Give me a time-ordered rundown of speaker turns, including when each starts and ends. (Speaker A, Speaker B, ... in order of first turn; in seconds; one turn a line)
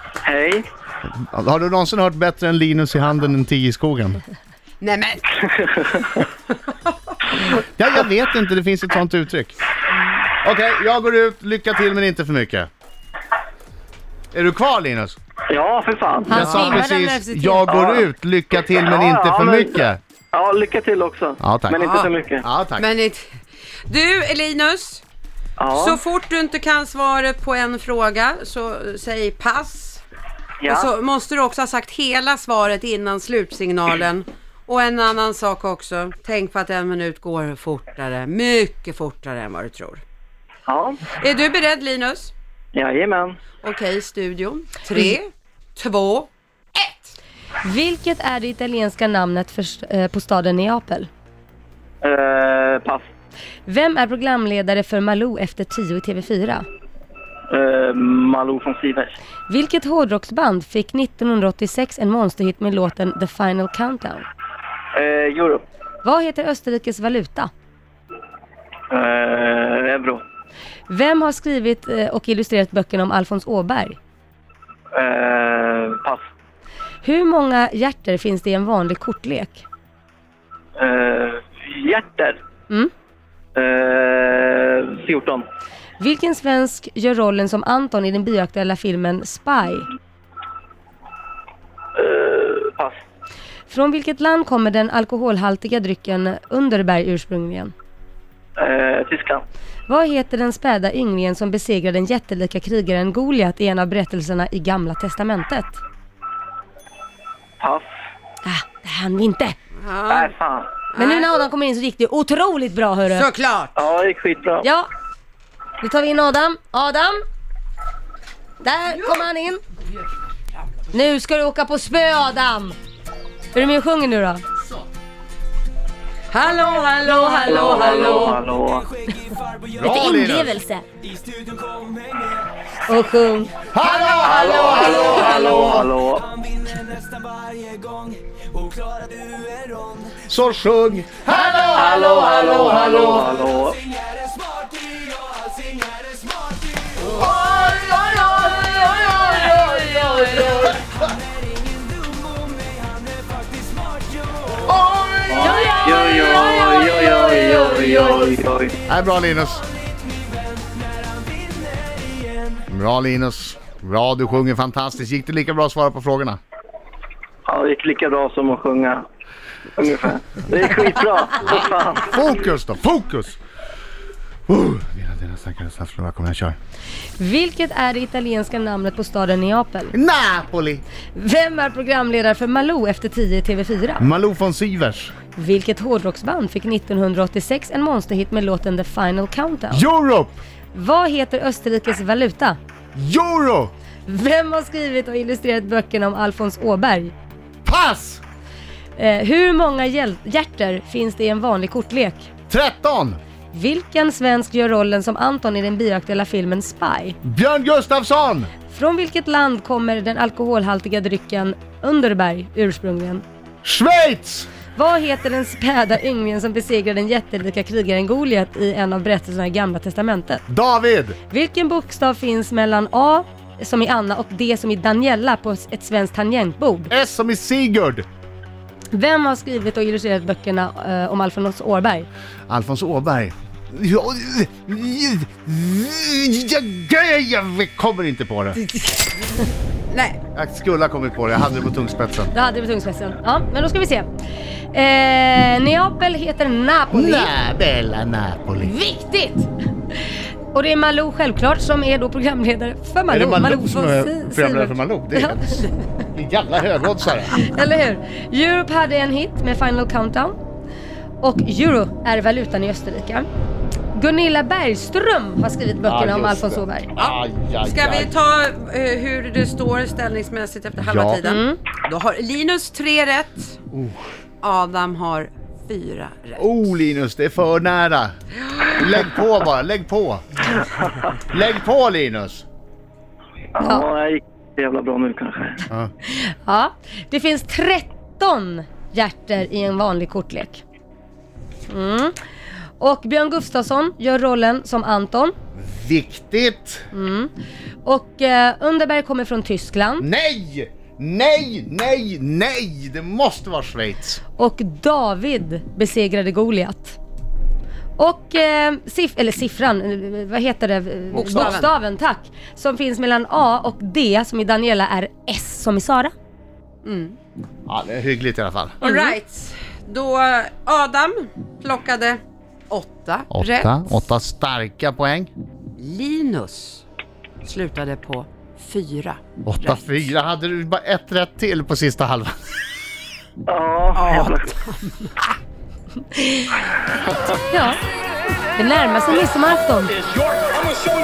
Speaker A: 0.2-0.6
Speaker B: 1.2-4.2
Speaker C: 4.8-6.1
Speaker A: 5.8-6.1
Speaker B: 7.6-9.6
Speaker B: 10.4-12.7
Speaker B: 14.3-15.2
Speaker A: 15.5-16.8
Speaker D: 16.3-17.6
Speaker B: 16.3-20.0
Speaker A: 17.7-18.1
Speaker A: 18.7-22.4
Speaker B: 21.4-21.8
Speaker C: 21.8-22.1
Speaker B: 22.4-22.9
Speaker C: 22.8-25.0
Speaker A: 25.6-26.0
Speaker C: 25.7-30.0
Speaker A: 30.6-30.9
Speaker C: 30.7-40.0
Speaker A: 40.7-41.0
Speaker C: 41.2-42.3
Speaker A: 42.7-43.4
Speaker C: 43.6-47.1
Speaker D: 47.6-51.1
Speaker A: 52.0-53.0
Speaker D: 53.6-56.6
Speaker A: 57.5-59.1
Speaker D: 59.5-64.2
Speaker A: 64.9-65.6
Speaker D: 66.0-67.5
Speaker A: 68.9-70.2
Speaker D: 70.9-74.0
Speaker A: 74.9-76.2
Speaker D: 77.0-79.6
Speaker A: 80.8-82.4
Speaker A: 83.5-85.4
Speaker D: 86.0-89.9
Speaker A: 92.0-93.0
Speaker D: 93.7-97.7
Speaker A: 98.6-99.4
Speaker D: 99.9-105.8
Speaker A: 107.6-107.9
Speaker D: 108.4-109.5
Speaker C: 109.8-110.3
Speaker A: 110.1-110.7
Speaker C: 110.9-111.3
Speaker D: 111.0-113.3
Speaker C: 113.0-113.7
Speaker A: 113.8-114.7
Speaker D: 114.6-114.9
Speaker D: 115.8-117.2
Speaker D: 118.6-119.6
Speaker D: 120.9-122.8
Speaker D: 123.5-124.4
Speaker C: 126.3-128.4
Speaker D: 127.0-128.4
Speaker A: 127.5-128.9
Speaker B: 129.7-130.6
Speaker D: 129.9-130.8
Speaker D: 132.9-133.5
Speaker B: 133.7-135.9
Speaker A: 134.2-136.3
Speaker B: 140.1-143.2
Speaker A: 141.7-143.8
Speaker B: 147.0-150.9
Speaker D: 149.0-149.7
Speaker B: 154.6-155.6
Speaker A: 155.3-158.8
Speaker D: 155.4-158.1
Speaker B: 158.9-159.7
Speaker B: 162.7-166.4
Speaker A: 167.4-169.0
Speaker A: 169.8-172.2
Speaker B: 172.0-173.4
Speaker B: 174.5-176.6
Speaker D: 177.2-179.9
Speaker B: 179.9-180.8
Speaker D: 181.1-184.1
Speaker B: 184.0-185.1
Speaker D: 185.3-189.8
Speaker B: 189.7-190.4
Speaker D: 190.7-192.6
Speaker B: 192.9-193.7
Speaker D: 194.1-197.1
Speaker B: 197.6-198.2
Speaker D: 198.9-202.3
Speaker B: 202.5-203.2
Speaker D: 203.5-207.2
Speaker B: 207.2-208.5
Speaker D: 208.7-213.2
Speaker B: 213.6-214.5
Speaker D: 214.7-220.4
Speaker B: 220.5-221.2
Speaker D: 221.3-226.9
Speaker B: 226.9-228.0
Speaker D: 228.9-232.1
Speaker B: 232.5-238.6
Speaker C: 238.8-240.2
Speaker B: 240.3-242.3
Speaker D: 242.3-244.1
Speaker D: 244.7-247.3
Speaker B: 246.9-248.7
Speaker D: 248.6-249.5
Speaker D: 250.5-255.7
Speaker B: 253.1-257.5
Speaker D: 257.3-260.4
Speaker D: 261.2-263.3
Speaker D: 263.9-266.9
Speaker B: 265.9-268.1
Speaker C: 267.6-273.6
Speaker B: 270.8-271.3
Speaker D: 271.2-271.6
Speaker B: 273.7-274.0
Speaker C: 274.4-276.5
Speaker B: 276.4-280.2
Speaker B: 281.1-282.4
Speaker A: 283.5-285.6
Speaker D: 286.0-290.6
Speaker D: 291.7-292.1
Speaker D: 292.8-295.3
Speaker B: 295.6-296.8
Speaker D: 296.9-297.3
Speaker D: 297.8-300.1
Speaker B: 300.0-304.2
Speaker D: 304.4-307.0
Speaker D: 308.0-316.1
Speaker C: 311.1-311.7
Speaker B: 311.2-311.5
Speaker C: 316.8-317.2
Speaker B: 317.7-318.8
Speaker C: 318.8-323.8
Speaker D: 318.8-319.1
Speaker B: 323.3-325.3
Speaker C: 325.8-326.8
Speaker C: 327.4-329.8
Speaker B: 329.4-332.3
Speaker A: 333.5-334.5
Speaker C: 333.9-335.1
Speaker D: 336.1-336.6
Speaker D: 337.5-337.8
Speaker D: 338.5-340.0